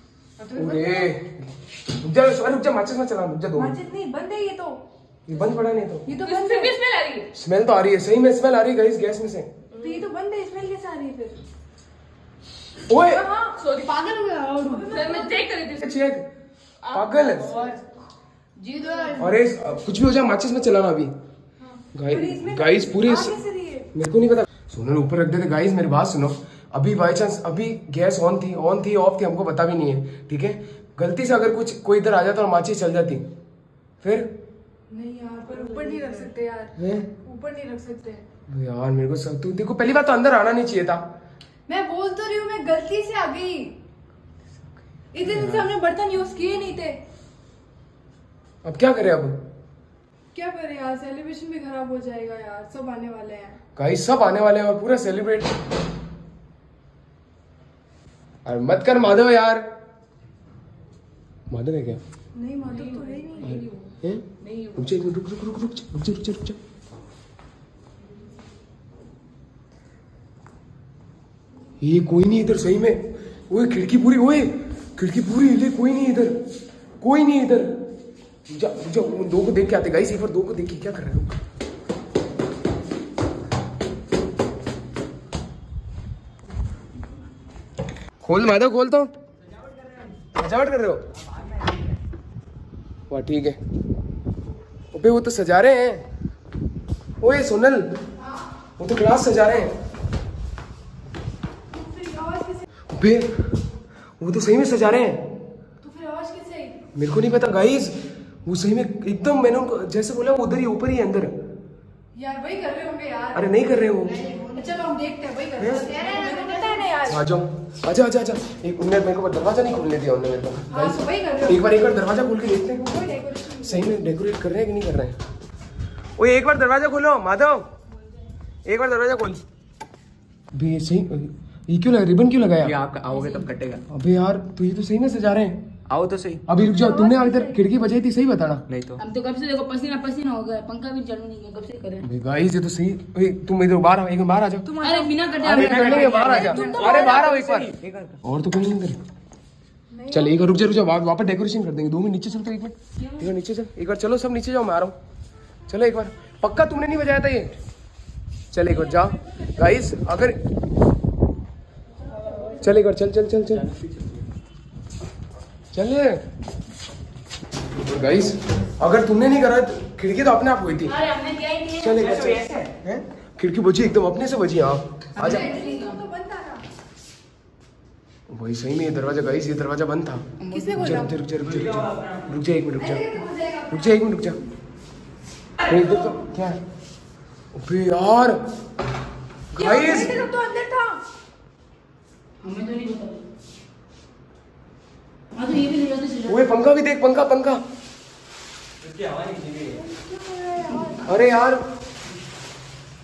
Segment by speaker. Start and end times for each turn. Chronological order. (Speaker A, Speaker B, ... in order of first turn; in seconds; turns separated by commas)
Speaker A: 0.4-1.1, Speaker B: 0.5-3.7, Speaker A: 3.5-4.8, Speaker B: 5.3-6.0, Speaker A: 6.0-6.7, Speaker C: 6.2-7.3, Speaker B: 7.3-9.5, Speaker C: 9.7-10.1, Speaker A: 9.7-11.4, Speaker B: 12.9-13.2, Speaker A: 12.9-13.9, Speaker C: 13.6-15.9, Speaker A: 14.5-15.5, Speaker B: 15.8-16.2, Speaker C: 16.8-17.8, Speaker B: 16.9-17.5, Speaker C: 18.6-19.2, Speaker A: 18.8-19.3, Speaker B: 19.2-21.1, Speaker A: 21.6-23.9, Speaker B: 21.9-23.3, Speaker B: 23.9-33.2, Speaker B: 34.0-34.3, Speaker A: 34.9-38.2, Speaker B: 36.8-37.1, Speaker B: 38.5-41.0, Speaker A: 41.7-43.8, Speaker A: 45.1-47.0, Speaker B: 45.2-45.7, Speaker B: 48.6-49.4, Speaker A: 50.3-53.6, Speaker B: 53.8-55.5, Speaker B: 58.4-59.6, Speaker B: 61.5-62.0, Speaker A: 62.3-63.5, Speaker C: 62.7-63.8, Speaker B: 63.4-66.6, Speaker C: 64.4-64.9, Speaker B: 71.8-76.4, Speaker B: 77.0-77.7, Speaker B: 78.5-81.4, Speaker B: 88.2-89.1, Speaker B: 90.3-91.0, Speaker B: 93.1-93.6, Speaker B: 94.9-96.0, Speaker B: 97.2-97.9, Speaker B: 98.8-99.7, Speaker A: 101.7-102.7, Speaker B: 102.9-103.5, Speaker B: 104.2-105.2, Speaker A: 105.8-106.8, Speaker B: 106.9-111.3, Speaker A: 112.1-117.2, Speaker B: 113.3-114.2, Speaker B: 115.6-115.9, Speaker C: 115.8-116.8, Speaker B: 117.0-122.9, Speaker A: 120.7-121.7, Speaker A: 122.8-124.0, Speaker B: 123.6-125.2, Speaker B: 126.2-127.7, Speaker B: 128.7-129.4, Speaker B: 130.5-132.8, Speaker D: 132.6-133.8, Speaker B: 133.9-135.6, Speaker D: 135.9-136.4, Speaker B: 136.5-138.6, Speaker A: 136.6-137.6, Speaker D: 138.7-139.0, Speaker C: 139.0-142.1, Speaker B: 142.0-144.7, Speaker A: 144.6-147.3, Speaker C: 144.8-147.2, Speaker B: 145.4-149.0, Speaker D: 146.6-148.2, Speaker A: 149.9-150.4, Speaker B: 150.1-154.9, Speaker C: 153.0-153.2, Speaker B: 155.7-157.6, Speaker B: 158.5-160.4, Speaker B: 162.6-163.7, Speaker B: 165.7-166.2, Speaker B: 167.8-170.9, Speaker C: 170.9-172.2, Speaker B: 171.8-175.4, Speaker D: 172.0-172.7, Speaker C: 175.2-176.0, Speaker A: 175.2-176.6, Speaker B: 178.3-183.0, Speaker C: 180.4-181.1, Speaker A: 180.5-181.1, Speaker A: 182.8-184.0, Speaker B: 183.7-184.4, Speaker B: 185.6-186.6, Speaker B: 187.5-188.4, Speaker B: 189.5-190.2, Speaker A: 189.6-191.0, Speaker C: 192.4-193.2, Speaker C: 195.3-196.4, Speaker B: 196.3-197.6, Speaker D: 198.9-199.7, Speaker A: 199.7-201.1, Speaker B: 201.0-201.6